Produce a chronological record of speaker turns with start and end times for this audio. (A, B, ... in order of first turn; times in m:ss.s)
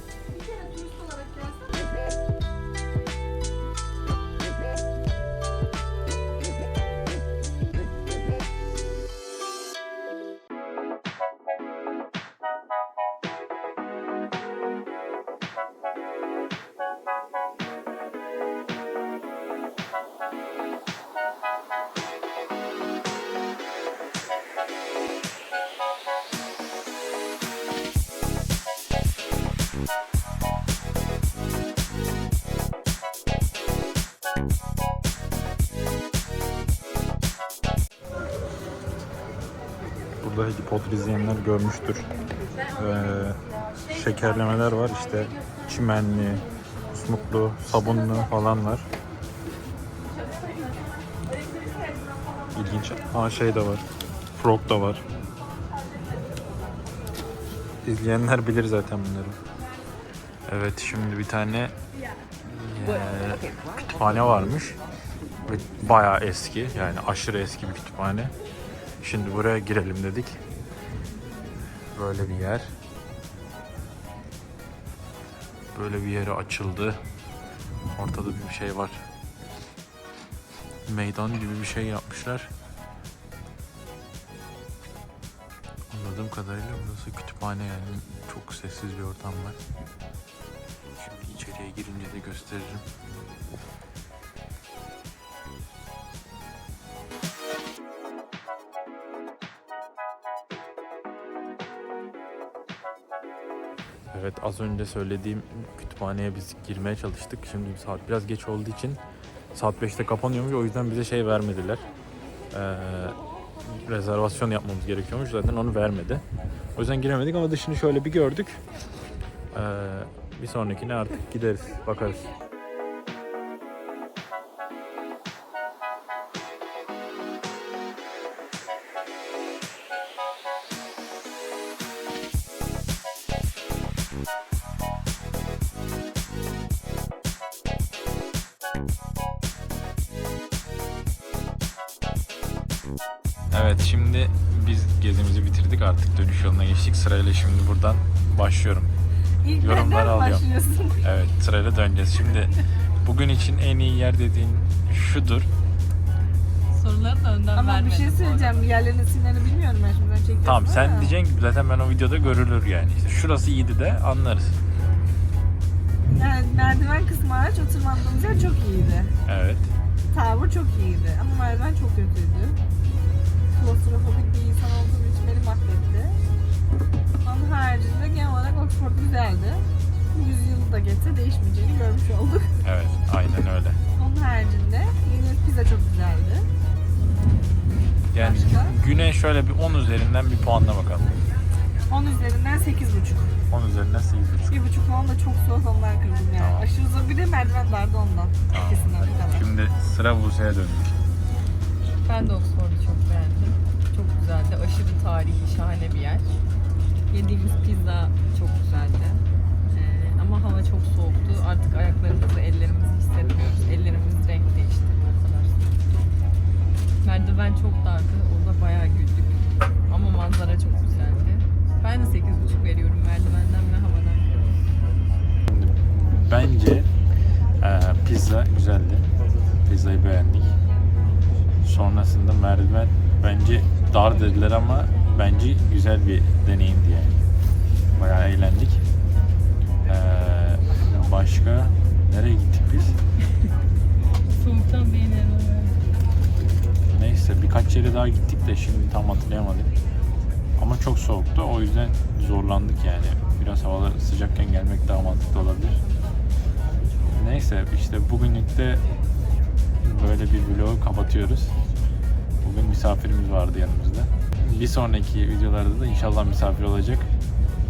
0:00.3-0:01.7 A
0:40.2-0:42.1 B
0:42.7-0:48.9 B
0:47.9-0:48.3 A
0:50.0-0:53.6 A
0:52.5-0:55.0 B
0:55.4-0:56.4 A
0:57.8-0:59.4 B
1:00.5-1:01.7 B
1:02.4-1:04.8 B
1:05.4-1:08.3 B
1:09.0-1:10.4 B
1:11.9-1:12.7 B
1:15.7-1:17.0 B
1:17.9-1:19.0 B
1:20.8-1:22.5 B
1:25.9-1:29.6 B
1:31.0-1:32.8 B
1:44.1-1:49.0 B
1:49.5-1:51.8 B
1:52.5-1:56.2 B
1:56.8-1:58.6 B
1:59.5-2:02.3 B
2:23.5-2:28.9 B
2:29.4-2:31.0 A
2:29.6-2:30.4 B
2:31.0-2:35.5 B
2:36.7-2:38.7 C
2:37.5-2:41.2 A
2:40.4-2:44.6 B
2:46.1-2:49.1 A
2:49.2-2:49.7 B
2:50.1-2:52.6 A
2:53.5-2:56.2 A
2:57.2-3:02.5 A
3:02.6-3:03.8 B
3:04.0-3:06.5 A
3:07.1-3:07.8 C
3:08.1-3:11.2 B
3:08.1-3:08.8 A
3:11.9-3:13.3 A
3:13.5-3:14.6 B
3:14.5-3:19.5 A
3:16.4-3:16.7 B
3:18.5-3:20.9 B
3:22.0-3:26.4 C
3:27.1-3:36.0 C
3:37.0-3:44.3 C
3:45.5-3:46.9 B
3:47.6-3:49.1 B
3:49.6-3:50.5 B
3:51.6-3:57.2 B
3:57.9-3:58.8 B
3:59.8-4:03.0 B
4:04.3-4:05.7 C
4:06.9-4:09.7 B
4:10.6-4:15.8 B
4:17.1-4:18.8 B
4:19.8-4:21.6 B
4:22.4-4:27.1 B